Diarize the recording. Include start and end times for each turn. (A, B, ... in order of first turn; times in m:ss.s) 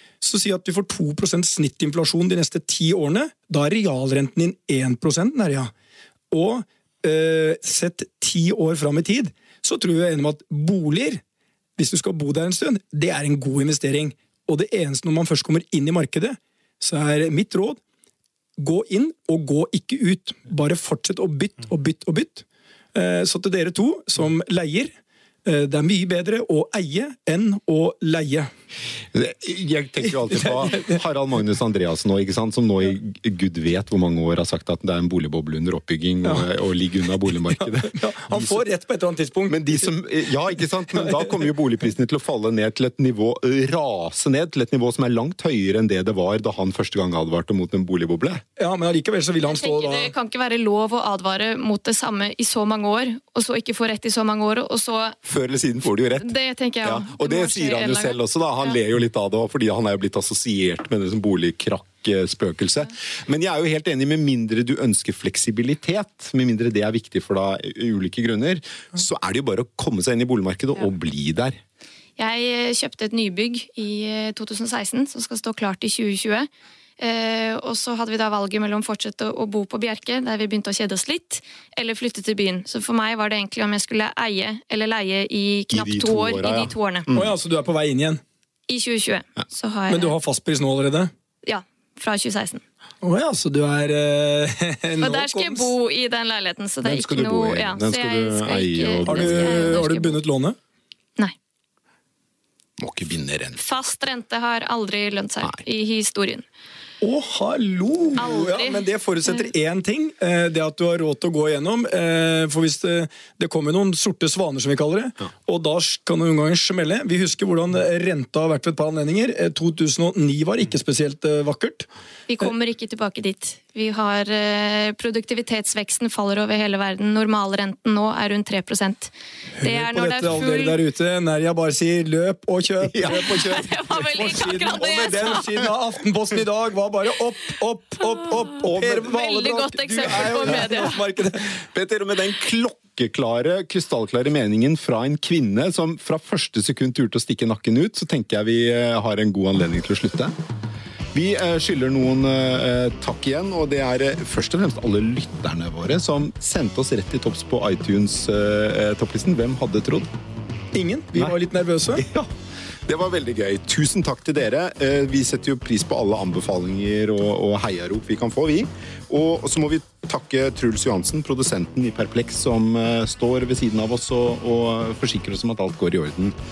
0:00.2-0:05.7 A
0:06.3-0:11.2 A
0:11.8-0:17.8 A
0:18.6-0:28.5 A
0:29.1-0:38.6 B
0:30.3-0:31.0 A
0:37.5-0:39.9 A
0:39.5-0:48.4 B
0:48.6-0:50.1 A
0:49.4-0:55.2 C
0:55.2-1:11.6 B
0:56.2-0:58.7 C
1:12.2-1:27.1 C
1:25.7-1:27.3 B
1:27.1-1:28.2 A
1:28.7-1:30.1 C
1:29.9-1:31.1 A
1:31.4-1:32.6 C
1:33.0-1:35.7 A
1:35.0-1:40.2 C
1:36.8-1:39.8 B
1:39.0-1:40.6 A
1:42.8-1:43.6 B
1:43.6-1:46.4 C
1:47.0-2:01.9 A
1:48.2-1:49.5 C
2:02.3-2:10.8 C
2:09.6-2:21.6 A
2:12.8-2:13.5 B
2:13.0-2:15.6 C
2:18.3-2:21.0 C
2:21.7-2:30.3 B
2:31.1-2:40.1 B
2:40.7-2:42.0 A
2:41.9-2:42.3 B
2:42.8-2:56.4 B